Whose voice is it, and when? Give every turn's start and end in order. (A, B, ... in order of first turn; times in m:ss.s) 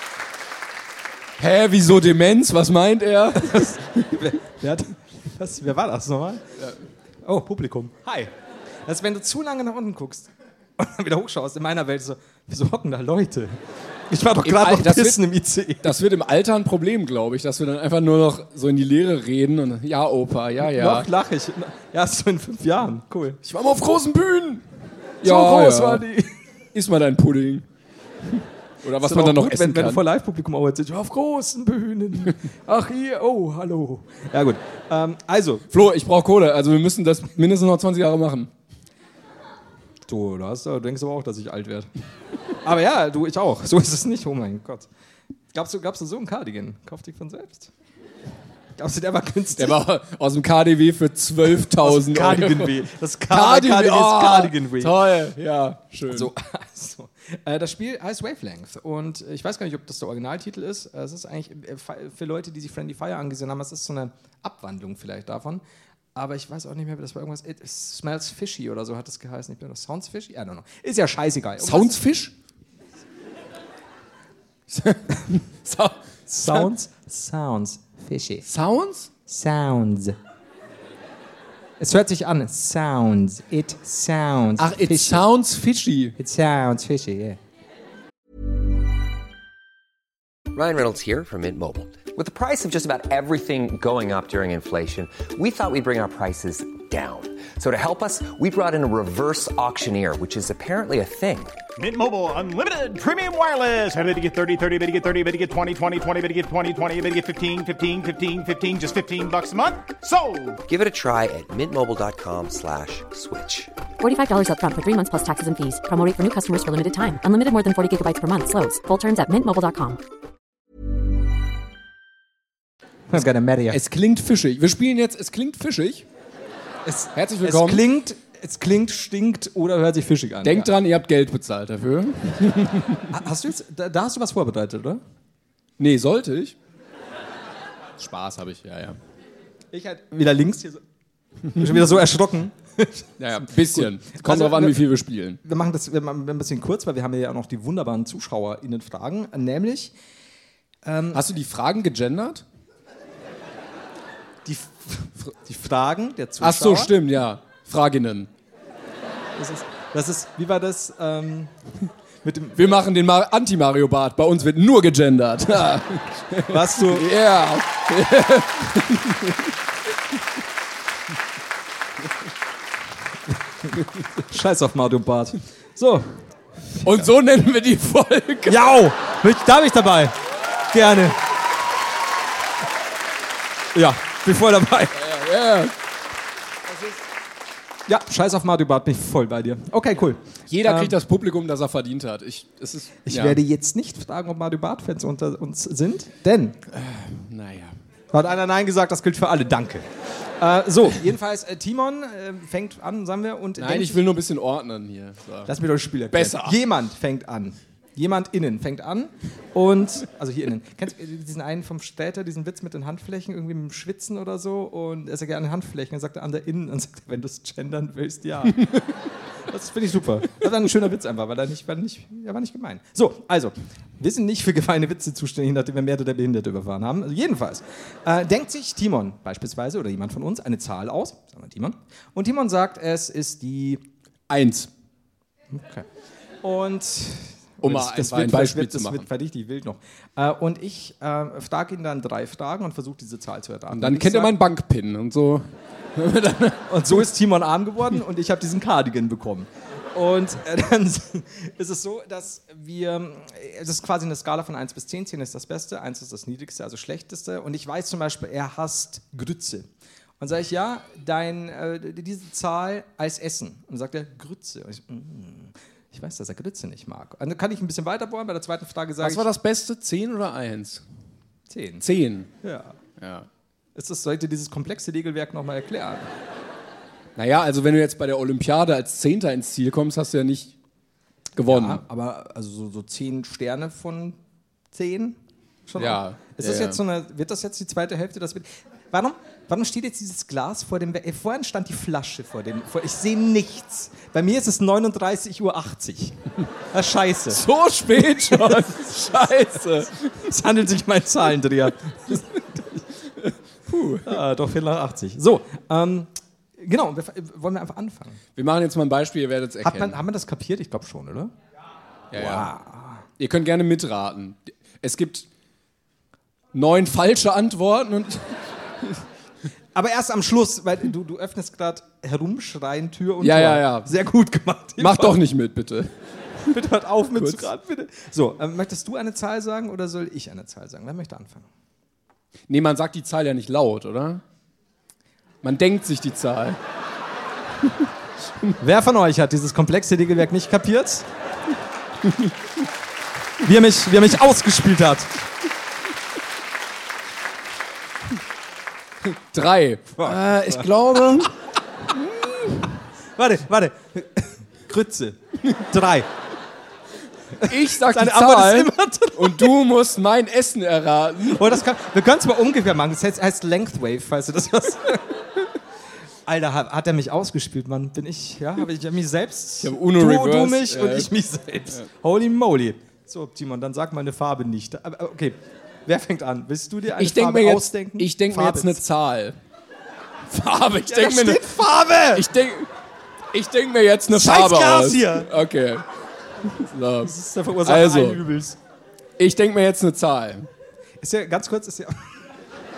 0:01.4-0:04.1 A
0:03.4-0:06.4 B
0:07.2-0:08.3 B
0:08.8-0:13.6 B
0:14.1-0:16.0 B
0:14.4-0:15.2 A
0:15.8-0:21.1 A
0:20.6-0:23.4 B
0:23.4-0:24.6 A
0:25.2-0:26.1 A
0:25.2-0:26.4 B
0:26.7-0:27.6 A
0:28.8-0:30.0 A
0:29.0-0:35.7 B
0:35.7-0:38.5 A
0:40.1-0:41.9 B
0:42.6-0:44.9 B
0:45.5-0:47.7 B
0:48.8-0:49.8 B
0:49.6-0:56.3 A
0:51.8-0:55.1 B
0:56.1-1:05.6 B
1:06.2-1:12.0 B
1:11.6-1:12.3 A
1:14.7-1:16.7 A
1:16.3-1:18.4 B
1:18.5-1:19.1 A
1:19.3-1:20.2 B
1:21.8-1:25.2 B
1:24.6-1:26.2 A
1:26.2-1:27.4 B
1:30.5-1:41.6 C
1:41.8-1:50.6 D
1:50.7-1:53.7 C
1:54.0-2:00.0 E
2:03.1-2:03.8 B
2:03.7-2:06.0 A
2:06.8-2:10.7 B
2:07.2-2:07.8 A
2:10.4-2:13.2 A
2:13.1-2:15.0 B
2:15.8-2:16.6 A
2:18.0-2:19.0 A
2:19.7-2:20.8 B
2:21.5-2:21.8 A
2:21.5-2:24.8 B
2:23.2-2:25.4 A
2:25.4-2:29.9 B
2:30.8-2:31.2 B
2:31.1-2:32.4 A
2:34.4-2:36.9 B
2:36.4-2:38.3 A
2:39.3-2:41.6 B
2:42.2-2:42.8 B
2:42.6-2:49.5 A
2:46.5-2:47.1 B
2:54.3-2:57.1 B
2:56.8-2:58.7 A
2:58.5-3:00.2 B
3:00.7-3:01.2 B
3:03.7-3:05.0 B
3:05.0-3:05.7 A
3:06.7-3:07.0 A
3:07.9-3:11.0 B
3:10.5-3:13.4 A
3:13.1-3:16.6 B
3:16.7-3:17.8 A
3:18.1-3:19.9 B
3:20.4-3:24.0 B
3:23.6-3:25.5 A
3:25.5-3:38.6 B
3:26.1-3:26.6 A
3:39.5-3:53.8 B
3:54.3-3:54.7 A
3:55.5-3:55.9 B
3:56.4-4:04.4 B
3:57.6-3:59.1 A
4:03.7-4:06.8 A
4:06.7-4:19.7 B
4:20.2-4:29.3 B
4:29.0-4:30.8 A
4:31.5-4:31.8 B
4:31.8-4:32.3 A
4:32.4-4:32.8 B
4:33.0-4:33.3 A
4:33.8-4:36.1 B
4:37.2-4:40.5 A
4:41.4-4:41.8 A
4:41.5-4:44.2 B
4:44.7-4:57.4 B
4:45.8-4:46.8 A
4:57.3-5:00.2 A
4:58.0-5:02.8 B
5:03.2-5:04.2 A
5:04.0-5:08.2 B
5:08.4-5:10.0 A
5:09.6-5:11.3 B
5:12.1-5:12.5 A
5:12.1-5:13.0 B
5:13.2-5:15.3 A
5:16.5-5:19.0 A
5:19.7-5:25.2 B
5:23.2-5:23.9 A
5:24.8-5:25.9 A
5:26.5-5:31.5 B
5:27.2-5:27.5 A
5:32.5-5:34.2 A
5:35.4-5:36.6 A
5:38.6-5:41.1 B
5:42.0-5:42.3 A
5:43.4-5:45.1 B
5:49.0-5:51.3 A
5:50.0-5:50.7 B
5:51.9-5:52.7 A
5:53.2-5:56.1 B
5:57.4-5:59.6 B
5:57.4-6:01.6 A
6:01.3-6:05.2 B
6:06.3-6:18.8 B
6:09.6-6:11.1 A
6:17.0-6:19.4 A
6:20.3-6:21.6 A
6:20.8-6:22.3 B
6:22.1-6:22.7 A
6:23.3-6:25.8 A
6:24.1-6:25.3 B
6:26.5-6:28.2 A
6:27.0-6:28.6 B
6:29.2-6:30.5 A
6:31.0-6:32.1 B